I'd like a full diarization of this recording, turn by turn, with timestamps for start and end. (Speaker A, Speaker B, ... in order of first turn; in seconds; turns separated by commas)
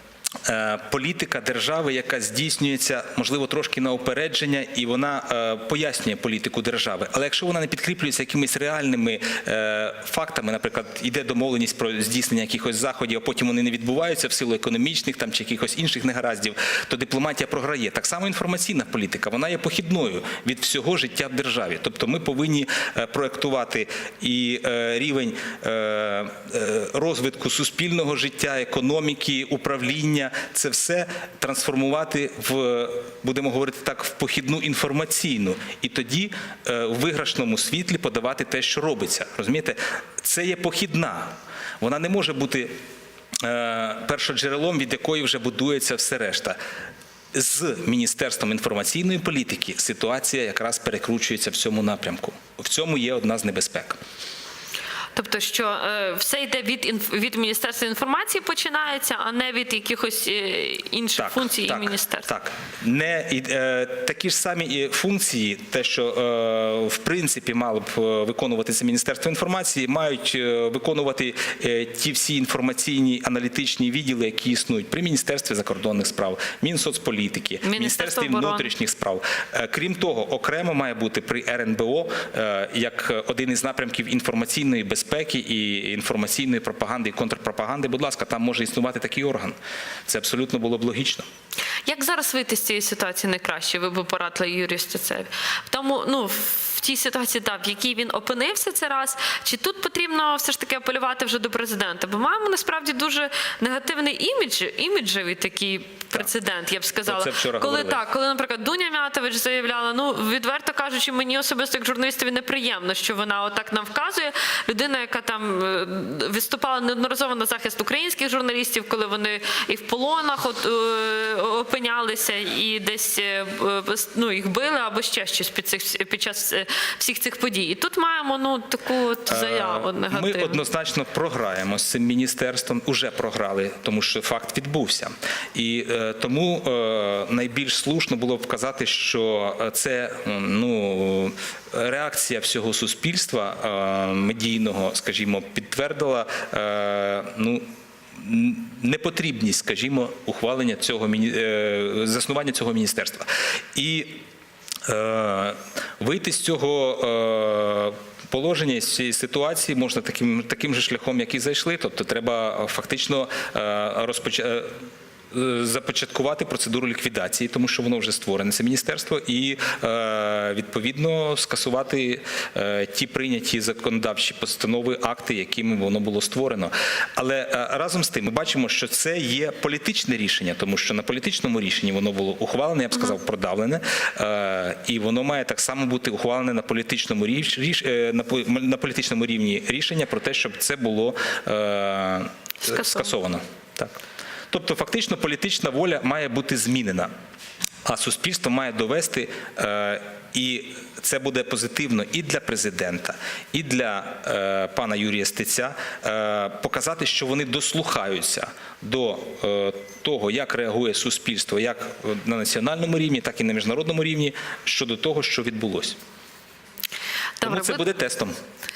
Speaker A: 0.5-42.7, Speaker A: 43.4-46.6, Speaker A: 47.3-54.0, Speaker B: 55.1-62.3, Speaker A: 61.2-91.2, Speaker B: 77.6-78.7, Speaker B: 91.9-130.6, Speaker A: 107.1-108.0, Speaker A: 129.3-147.6, Speaker A: 148.1-154.2, Speaker A: 154.9-164.7, Speaker A: 165.3-197.1, Speaker B: 192.6-193.1, Speaker A: 197.8-216.0, Speaker B: 217.4-217.9, Speaker A: 217.4-218.3